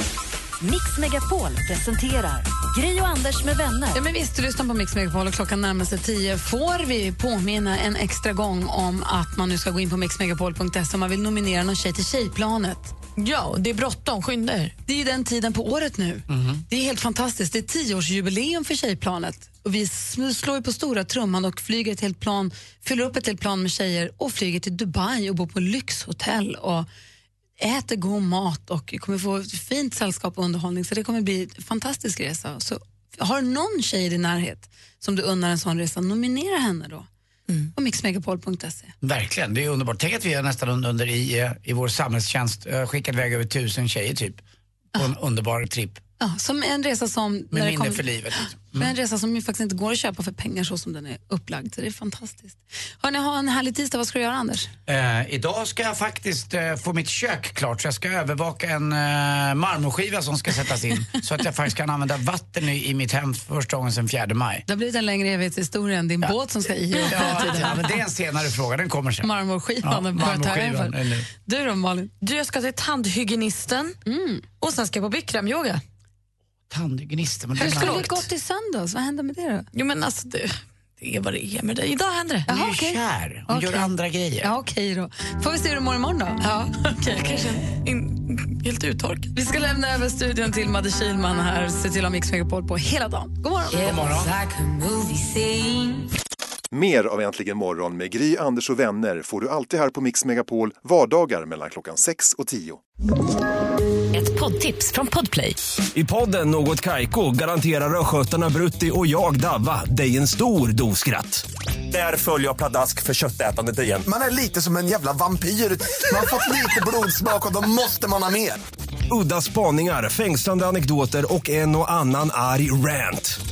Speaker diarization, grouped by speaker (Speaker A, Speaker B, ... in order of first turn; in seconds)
Speaker A: 0.6-4.0, 94.2-96.0, 104.1-105.6
Speaker B: 3.9-12.9, 14.8-26.9, 27.6-37.1, 37.8-38.9, 46.2-54.7, 64.7-67.8, 69.2-72.1, 74.1-74.4, 77.6-79.7, 82.5-86.7, 89.3-93.9
Speaker C: 13.2-14.7, 72.2-74.0, 74.6-75.8, 77.6-78.1, 79.7-82.5, 86.4-89.3
Speaker D: 16.3-16.6, 39.0-44.4, 45.0-46.0, 47.5-48.9, 54.9-64.6, 67.0-69.3, 69.8-71.3, 76.7-78.2, 82.5-84.5, 93.8-94.3
Speaker E: 96.7-102.8
Speaker F: 105.9-114.0, 119.1-123.4
Speaker G: 114.0-118.6